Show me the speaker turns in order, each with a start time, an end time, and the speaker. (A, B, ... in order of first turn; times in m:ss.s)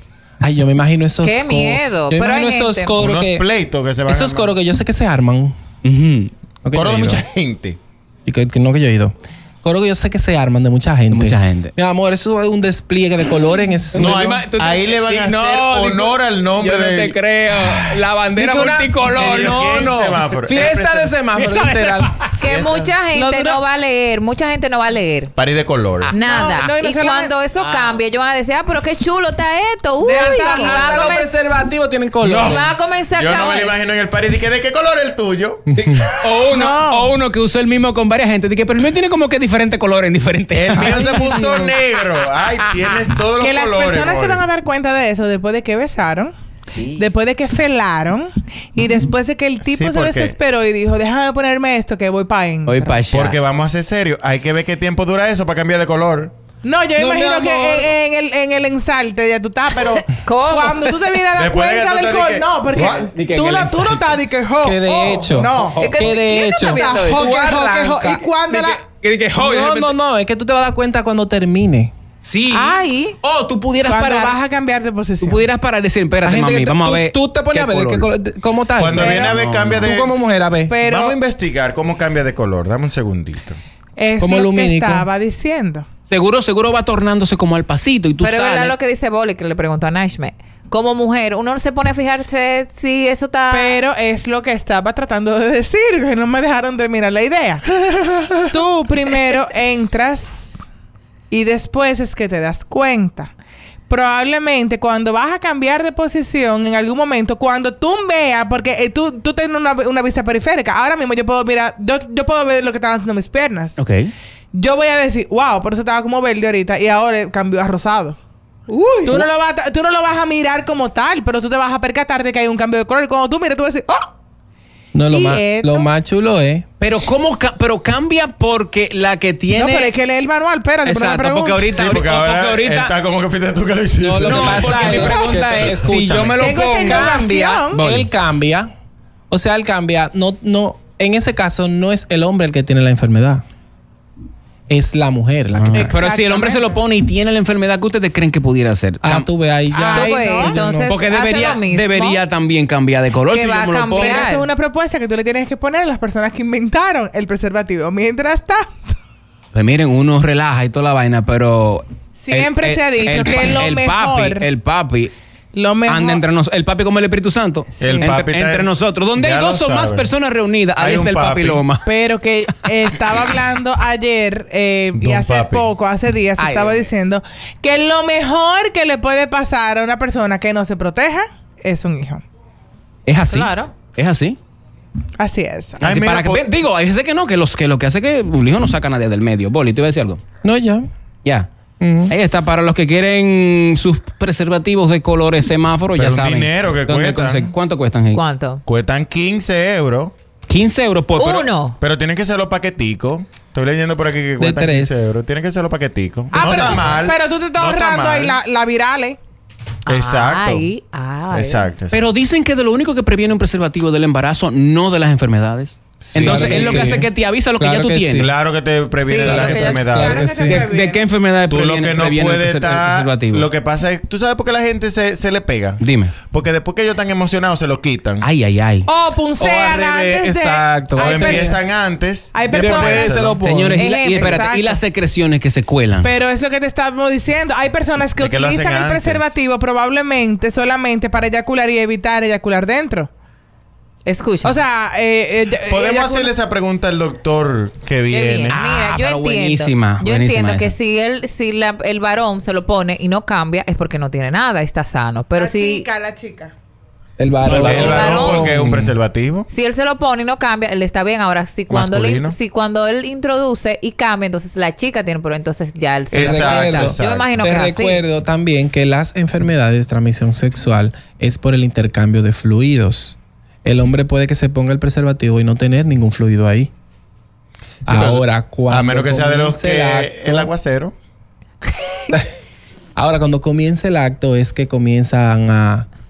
0:00.4-0:03.4 A
0:01.2-0:03.0 B
0:03.0-0:04.6 C
0:04.1-0:05.6 A
0:05.8-0:06.3 D
0:06.6-0:07.2 A
0:06.7-0:07.8 C
0:08.3-0:14.4 A
0:11.1-0:11.7 D
0:14.0-0:16.1 D
0:14.0-0:17.2 C
0:16.6-0:16.9 A
0:16.8-0:19.5 D
0:17.9-0:22.3 A
0:19.2-0:21.1 C
0:21.4-0:22.3 D
0:22.4-0:25.3 B
0:22.4-0:22.9 C
0:23.3-0:23.6 E
0:25.4-0:26.1 C
0:26.1-0:31.6 B
0:26.1-0:27.4 E
0:27.6-0:28.0 D
0:30.0-0:32.6 A
0:30.0-0:30.4 E
0:32.2-0:35.6 C
0:32.4-0:33.7 B
0:35.8-0:41.1 D
0:36.5-0:37.2 E
0:40.5-0:44.4 C
0:40.7-0:41.2 A
0:41.2-0:41.7 B
0:42.6-0:42.9 D
0:43.4-0:46.3 E
0:46.8-0:47.0 D
0:46.9-0:53.0 E
0:49.6-0:50.4 C
0:52.7-0:53.4 D
0:53.1-0:56.3 C
0:56.6-1:05.9 E
0:57.0-0:57.9 A
1:00.1-1:00.8 B
1:01.3-1:03.1 C
1:03.2-1:04.0 D
1:04.6-1:08.3 A
1:05.8-1:06.0 D
1:05.8-1:07.2 B
1:06.6-1:08.8 E
1:08.4-1:10.0 D
1:09.4-1:11.9 A
1:12.2-1:14.4 D
1:12.5-1:13.2 B
1:13.8-1:15.5 E
1:15.2-1:18.1 D
1:16.2-1:20.8 A
1:18.8-1:20.2 C
1:18.9-1:19.3 E
1:19.3-1:19.9 D
1:20.7-1:21.2 E
1:20.8-1:23.6 C
1:24.0-1:25.8 E
1:24.2-1:25.1 A
1:26.1-1:28.8 D
1:28.2-1:33.8 B
1:33.5-1:37.7 E
1:38.5-1:40.6 E
1:41.3-1:43.3 E
1:43.9-1:53.8 E
1:53.8-1:54.1 D
1:54.5-1:58.2 E
1:58.7-2:04.0 E
2:04.9-2:06.7 A
2:05.1-2:05.9 E
2:06.8-2:09.9 D
2:09.5-2:12.0 E
2:10.8-2:12.9 D
2:11.7-2:16.4 C
2:14.0-2:18.7 A
2:14.3-2:18.1 D
2:16.4-2:17.9 E
2:19.3-2:23.4 A
2:24.7-2:26.1 A
2:25.6-2:29.3 D
2:26.0-2:26.6 E
2:29.0-2:31.1 A
2:29.7-2:30.6 E
2:29.9-2:32.2 B
2:30.9-2:34.3 D
2:33.3-2:34.5 B
2:34.0-2:38.7 E
2:39.5-2:45.1 D
2:42.2-2:44.5 E
2:45.5-2:46.2 E
2:45.8-2:51.9 D
2:47.8-2:48.1 E
2:47.8-2:50.1 C
2:50.8-2:51.6 C
2:51.8-3:02.2 E
2:55.0-2:55.7 C
2:56.4-2:56.7 B
3:03.1-3:04.4 D
3:03.2-3:03.8 B
3:05.2-3:05.9 E
3:05.8-3:06.5 C
3:05.8-3:10.2 D
3:10.4-3:10.9 A
3:11.2-3:11.5 D
3:11.8-3:12.1 A
3:12.1-3:18.2 D
3:16.0-3:17.5 C
3:18.1-3:18.6 B
3:18.7-3:20.1 C
3:20.5-3:21.5 D
3:21.2-3:21.8 B
3:21.8-3:28.4 C
3:24.4-3:25.2 A
3:26.3-3:29.2 E
3:29.9-3:31.7 B
3:29.9-3:30.7 C
3:31.3-3:32.0 C
3:31.9-3:38.2 D
3:36.0-3:37.0 C
3:36.2-3:38.3 A
3:38.2-3:40.3 C
3:39.0-3:39.9 B
3:39.3-3:40.6 A
3:39.9-3:41.1 E
3:40.4-3:43.5 D
3:41.5-3:48.2 C
3:45.8-3:46.2 D
3:48.2-3:48.9 D
3:48.9-3:51.5 E
3:49.4-3:51.6 A
3:50.9-3:53.4 C
3:52.3-3:54.8 E
3:52.5-3:53.9 A
3:53.4-3:56.1 D
3:53.8-3:54.5 B
3:56.0-4:03.1 E
3:58.2-3:59.4 C
4:04.1-4:04.6 B
4:04.4-4:06.3 E
4:05.7-4:08.6 C
4:08.1-4:15.9 B
4:08.5-4:10.8 D
4:15.4-4:16.5 E
4:17.2-4:19.0 A
4:17.4-4:19.5 C
4:17.6-4:18.6 B
4:19.5-4:28.0 B
4:21.7-4:22.4 C
4:26.1-4:27.3 C
4:26.2-4:36.7 A
4:37.9-4:40.9 C
4:37.9-4:40.5 A
4:43.0-4:45.9 A